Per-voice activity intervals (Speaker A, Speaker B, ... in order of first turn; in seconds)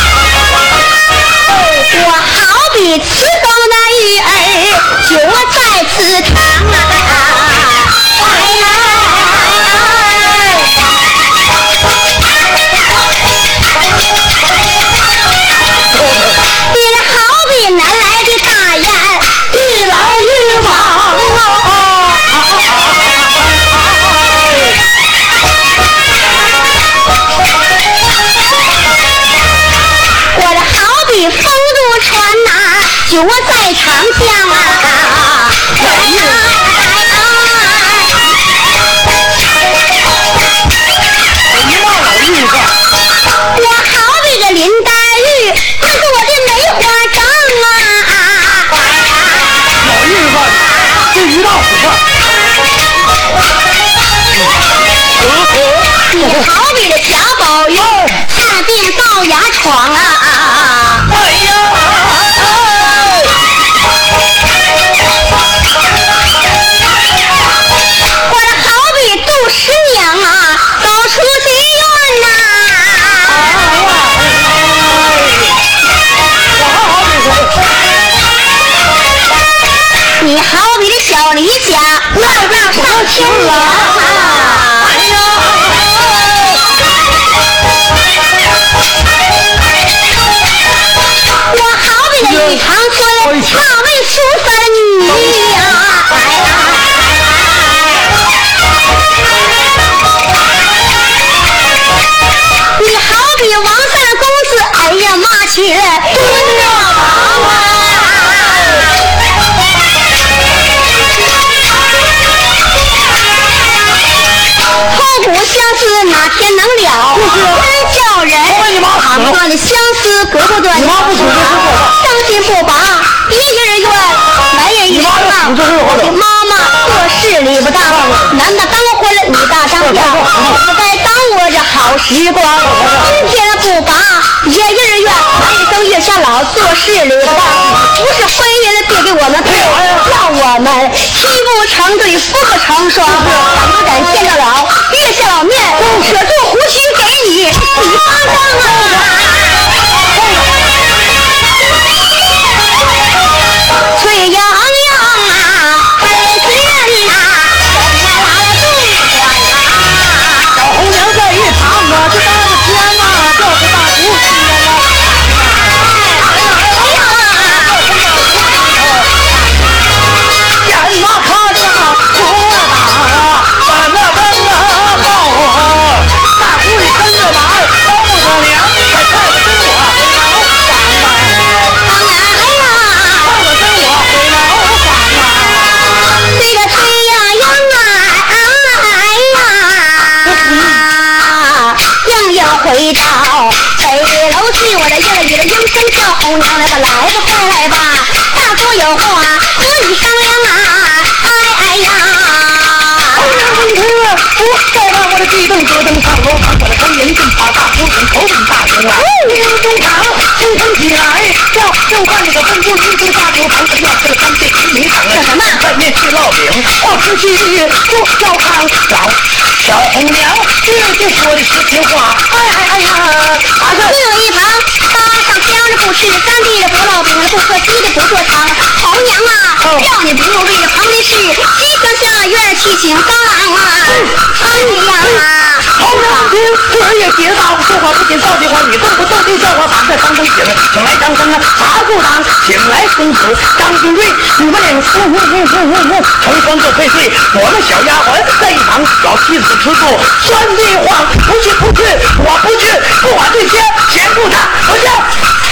Speaker A: 1.5-10.5, 16.6-21.0, 30.3-38.2, 43.5-49.7, 55.9-61.1, 68.2-73.4, 80.2-85.0, 91.5-97.9, 102.8-108.9, 114.8-149.7, 153.9-160.6, 165.8-167.9, 181.8-183.3, 186.2-203.7, 209.0-209.4, 215.1-215.6, 223.7-236.3
Speaker B: 19.5-24.8, 35.7-36.5, 41.5-42.7, 49.8-52.0, 55.2-56.5, 57.7-58.2, 61.1-63.3, 73.3-75.6, 76.5-77.6, 82.1-86.4, 92.2-92.6, 93.2-93.6, 117.1-117.7, 118.4-119.4, 120.7-122.0, 124.9-126.2, 127.8-128.3, 129.8-130.6, 132.6-133.1, 139.4-140.1, 143.1-143.4, 148.9-149.1, 150.1-150.4, 160.5-169.1, 170.6-181.5, 183.2-186.0, 190.2-190.8, 203.1-224.0, 229.6-229.9, 233.9-234.3, 235.8-255.1